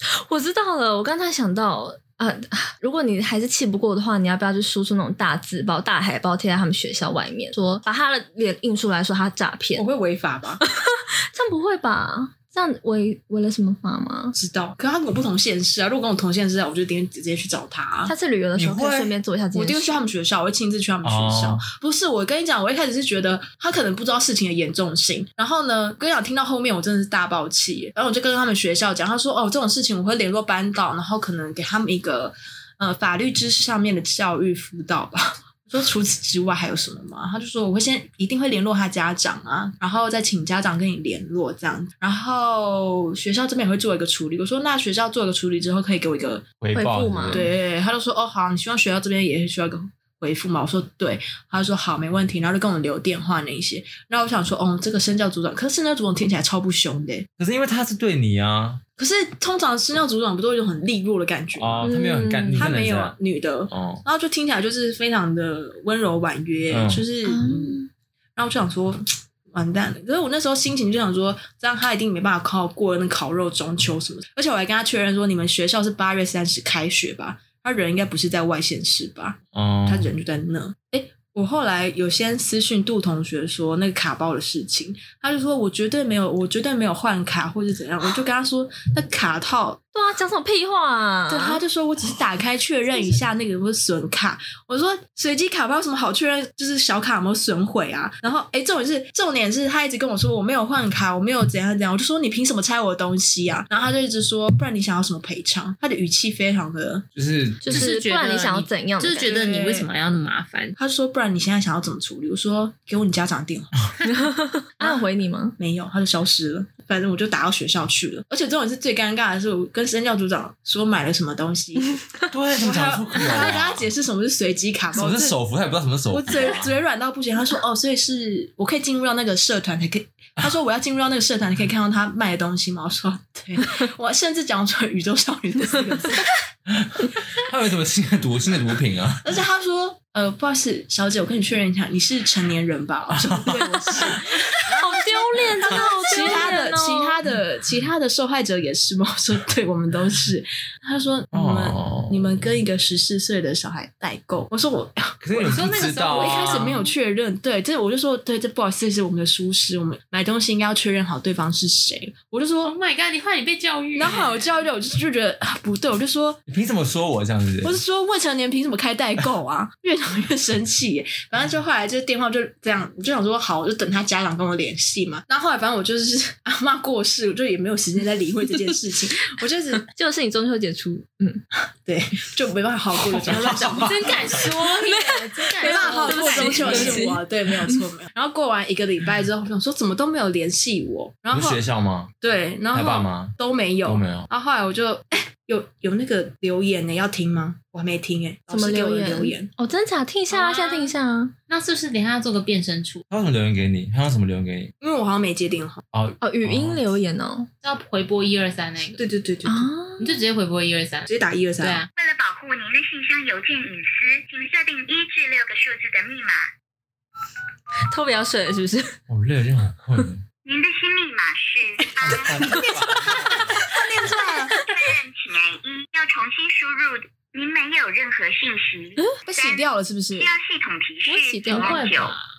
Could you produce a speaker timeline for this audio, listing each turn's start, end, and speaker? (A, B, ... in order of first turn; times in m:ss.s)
0:00.2-0:09.8 A
0:09.8-0:10.6 B
0:10.7-0:14.4 A
0:14.3-0:18.1 B
0:18.0-0:20.0 A
0:18.6-0:19.1 C
0:19.5-0:46.5 B
0:21.0-0:21.6 C
0:46.6-0:47.5 C
0:46.7-0:47.4 A
0:47.3-0:57.3 B
0:57.4-0:58.8 C
0:59.0-1:01.9 B
1:01.6-1:03.2 C
1:01.8-1:02.8 A
1:02.6-1:07.8 B
1:03.7-1:04.0 C
1:06.7-1:07.0 C
1:07.2-1:07.9 A
1:08.4-1:29.8 B
1:19.5-1:20.1 C
1:29.9-1:31.6 A
1:31.3-1:47.0 B
1:47.1-1:47.9 C
1:47.6-1:49.3 A
1:47.7-1:50.8 D
1:49.2-1:49.9 B
1:50.8-1:53.8 B
1:54.1-1:55.6 A
1:55.6-2:02.0 B
2:02.3-2:03.9 C
2:02.6-2:05.4 B
2:04.9-2:06.7 C
2:06.1-2:16.4 B
2:16.7-2:19.4 C
2:19.2-2:42.7 B
2:23.1-2:24.1 C
2:23.9-2:27.2 A
2:25.6-2:26.5 C
2:31.3-2:32.4 C
2:35.2-2:36.8 C
2:35.4-2:36.9 D
2:42.6-2:44.5 D
2:44.0-2:46.4 B
2:46.5-2:47.8 C
2:47.6-2:59.9 B
2:59.9-3:01.4 A
3:01.8-3:04.4 B
3:03.0-3:07.8 A
3:03.2-3:04.4 C
3:03.8-3:07.2 D
3:05.6-3:11.6 B
3:11.3-3:12.1 C
3:12.2-3:19.5 B
3:12.7-3:14.3 C
3:18.5-3:21.3 A
3:20.3-3:20.9 D
3:21.5-3:23.0 D
3:23.1-3:24.7 C
3:24.8-3:25.8 B
3:25.9-3:27.0 C
3:26.2-3:27.5 A
3:27.6-3:29.1 D
3:29.0-3:29.7 B
3:29.4-3:30.2 A
3:30.0-3:31.9 D
3:31.1-3:31.8 B
3:31.9-3:36.4 E
3:37.9-3:38.9 A
3:39.1-3:40.2 C
3:40.4-3:43.4 E
3:42.0-3:43.5 C
3:42.1-3:43.2 A
3:43.6-3:44.6 B
3:44.0-3:52.2 E
3:44.5-3:44.9 A
3:49.3-3:50.3 B
3:51.0-3:51.8 A
3:51.5-3:52.2 D